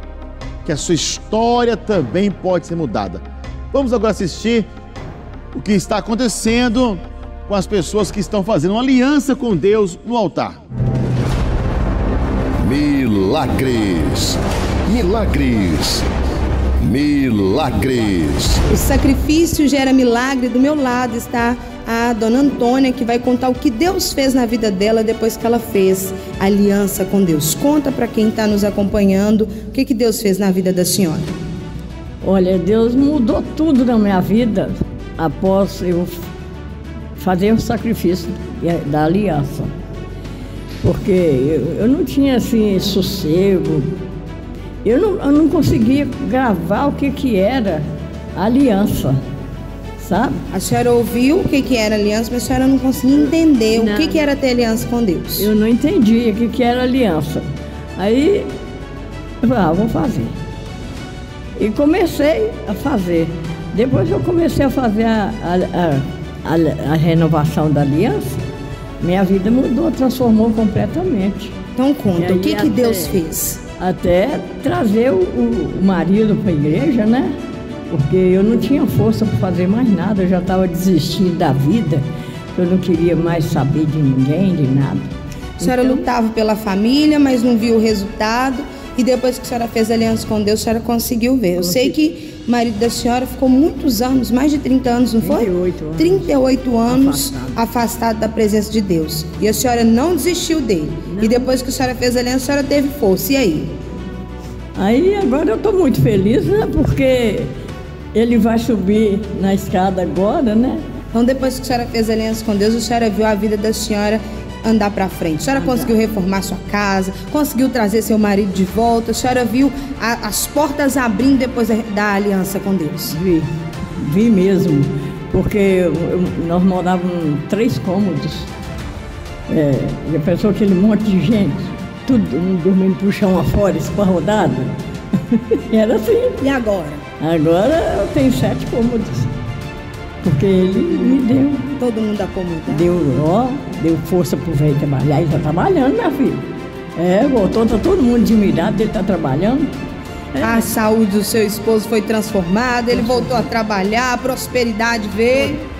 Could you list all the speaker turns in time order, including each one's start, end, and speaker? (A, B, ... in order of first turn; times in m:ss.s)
0:00.6-0:04.7 A
0:05.5-0:10.6 A
0:12.6-0:16.0 B
0:16.8-0:18.6 B
0:18.7-0:31.3 C
0:32.2-0:36.3 D
0:37.2-0:39.7 D
0:40.8-0:44.0 D
0:44.8-0:49.2 D
0:50.0-0:50.4 D
0:50.5-0:55.5 C
0:53.7-0:54.2 D
0:55.4-0:58.5 D
0:59.4-1:00.4 D
1:01.6-1:08.5 D
1:09.0-1:11.6 D
1:11.8-1:13.6 C
1:12.1-1:13.2 D
1:13.8-1:17.4 D
1:17.9-1:26.0 D
1:25.6-1:43.7 C
1:31.6-1:32.0 D
1:35.2-1:37.6 D
1:41.1-1:41.5 D
1:44.8-1:47.5 D
1:48.1-1:50.8 D
1:51.1-2:03.2 C
1:55.5-1:55.9 D
2:03.1-2:08.5 D
2:09.5-2:14.8 D
2:15.3-2:16.4 D
2:16.4-2:17.0 C
2:17.2-2:19.3 D
2:20.2-2:21.7 D
2:21.7-2:22.9 C
2:22.7-2:29.7 D
2:30.3-2:30.7 D
2:30.4-2:35.6 C
2:32.9-2:33.5 D